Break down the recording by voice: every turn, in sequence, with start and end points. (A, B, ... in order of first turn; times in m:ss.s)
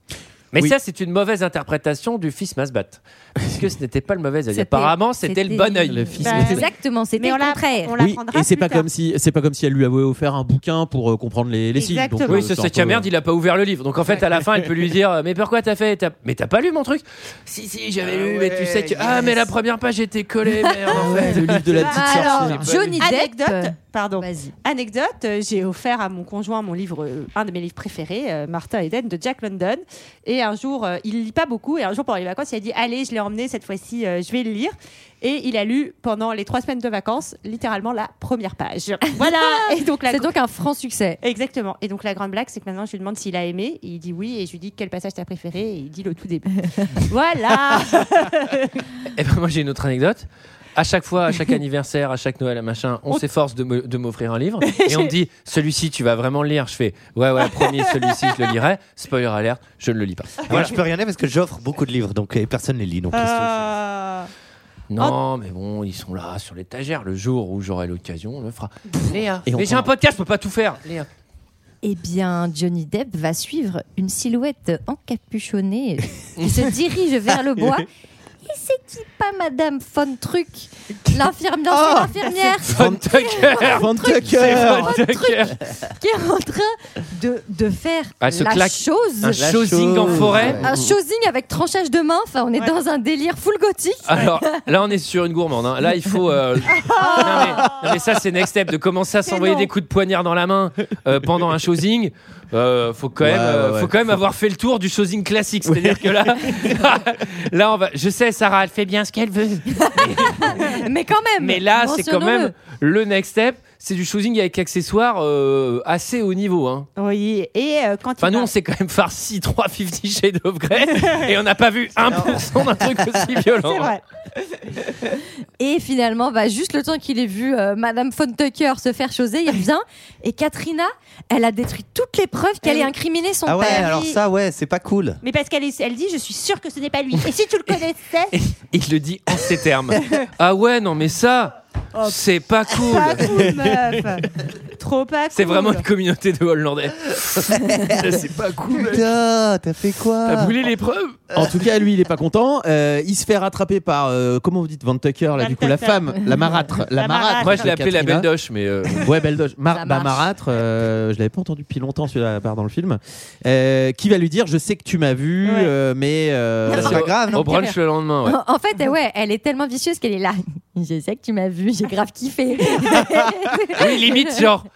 0:00.5-0:06.3 A
0:04.5-0:07.9 B
0:05.9-0:06.7 C
0:06.2-0:06.7 D
0:07.2-0:08.9 D
0:08.0-0:13.1 C
0:11.8-0:12.4 D
0:12.3-0:21.9 A
0:18.0-0:19.5 E
0:20.9-0:23.0 C
0:21.6-0:40.3 D
0:21.9-0:24.5 B
0:22.6-0:23.0 A
0:39.1-0:41.2 B
0:41.2-0:48.7 D
0:49.1-1:00.7 A
0:54.6-0:55.1 D
0:57.5-0:58.3 D
1:00.5-1:03.7 E
1:03.1-1:04.3 D
1:04.9-1:11.1 A
1:09.5-1:09.9 C
1:11.8-1:17.9 B
1:18.5-1:29.4 B
1:21.7-1:25.0 C
1:22.7-1:25.6 A
1:28.2-1:30.6 A
1:29.4-1:31.0 C
1:29.5-1:30.7 E
1:30.6-1:34.6 B
1:34.1-1:50.7 A
1:36.8-1:37.8 D
1:37.0-1:37.6 B
1:39.2-1:39.7 D
1:43.2-1:44.2 C
1:45.6-1:46.8 C
1:49.8-1:52.5 B
1:51.4-1:56.9 A
1:57.0-1:58.5 D
1:58.2-2:03.9 A
2:03.6-2:04.0 D
2:05.6-2:14.0 B
2:12.6-2:13.0 D
2:13.5-2:15.2 E
2:13.6-2:14.2 D
2:15.2-2:18.3 D
2:18.3-2:23.4 A
2:22.7-2:25.9 D
2:25.3-2:29.0 A
2:27.5-2:28.2 E
2:28.0-2:28.8 C
2:28.7-2:30.6 E
2:30.3-2:31.2 A
2:31.3-2:38.3 C
2:35.4-2:36.2 D
2:37.0-2:37.7 D
2:37.4-2:39.0 A
2:39.0-2:47.1 C
2:39.7-2:40.2 B
2:45.4-2:45.7 D
2:46.7-2:47.7 E
2:46.7-2:48.4 A
2:48.2-2:54.3 B
2:53.0-2:53.3 C
2:53.7-2:54.7 A